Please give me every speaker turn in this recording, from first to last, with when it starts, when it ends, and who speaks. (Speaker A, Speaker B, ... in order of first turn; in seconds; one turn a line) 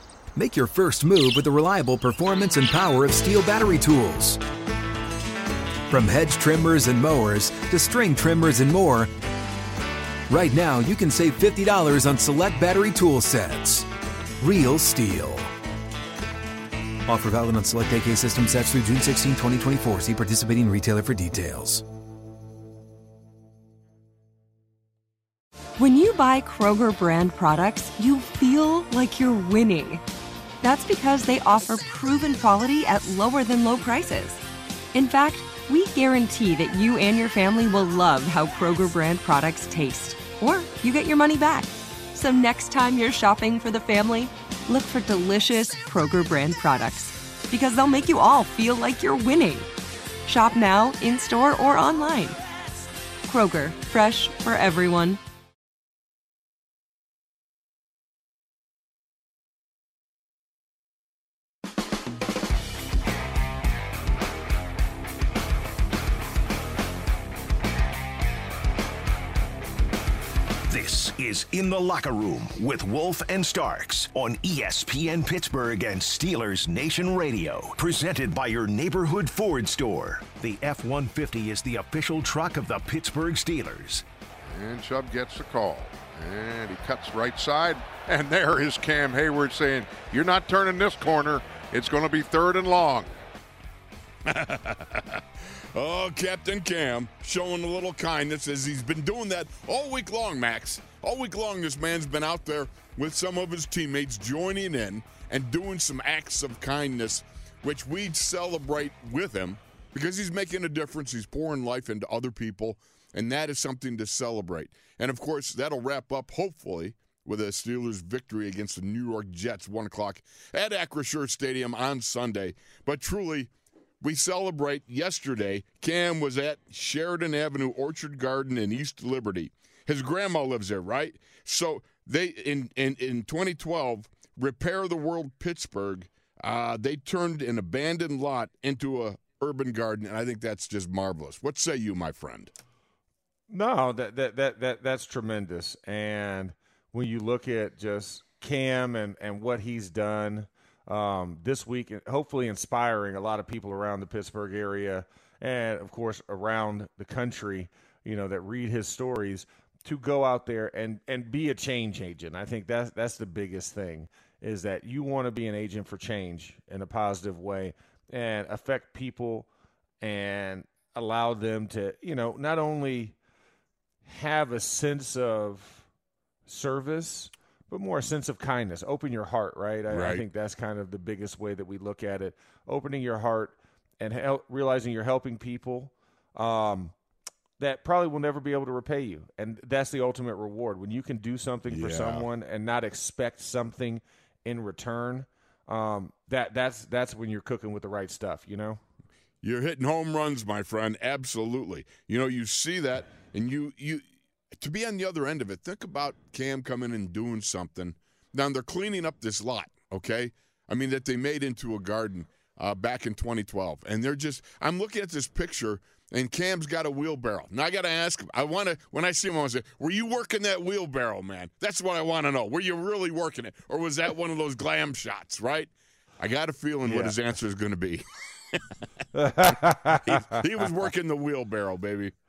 Speaker A: 0.3-4.4
Speaker A: 5.9-9.1
Speaker A: 10.3-13.9
Speaker A: 14.4-15.5
Speaker A: 17.1-21.8
Speaker B: 25.8-30.0
Speaker B: 30.6-34.4
Speaker B: 34.9-49.7
Speaker B: 50.3-52.4
Speaker B: 53.3-55.2
Speaker C: 70.7-84.0
Speaker D: 84.5-93.1
Speaker E: 94.2-142.5
Speaker F: 143.5-169.5
Speaker F: 170.0-173.2
Speaker F: 174.1-175.8
Speaker F: 176.5-186.9
Speaker E: 179.9-180.2
Speaker F: 187.6-198.8
Speaker E: 191.7-192.3
Speaker E: 199.4-228.8
Speaker F: 226.9-227.2
Speaker F: 229.1-230.4
Speaker E: 229.5-232.1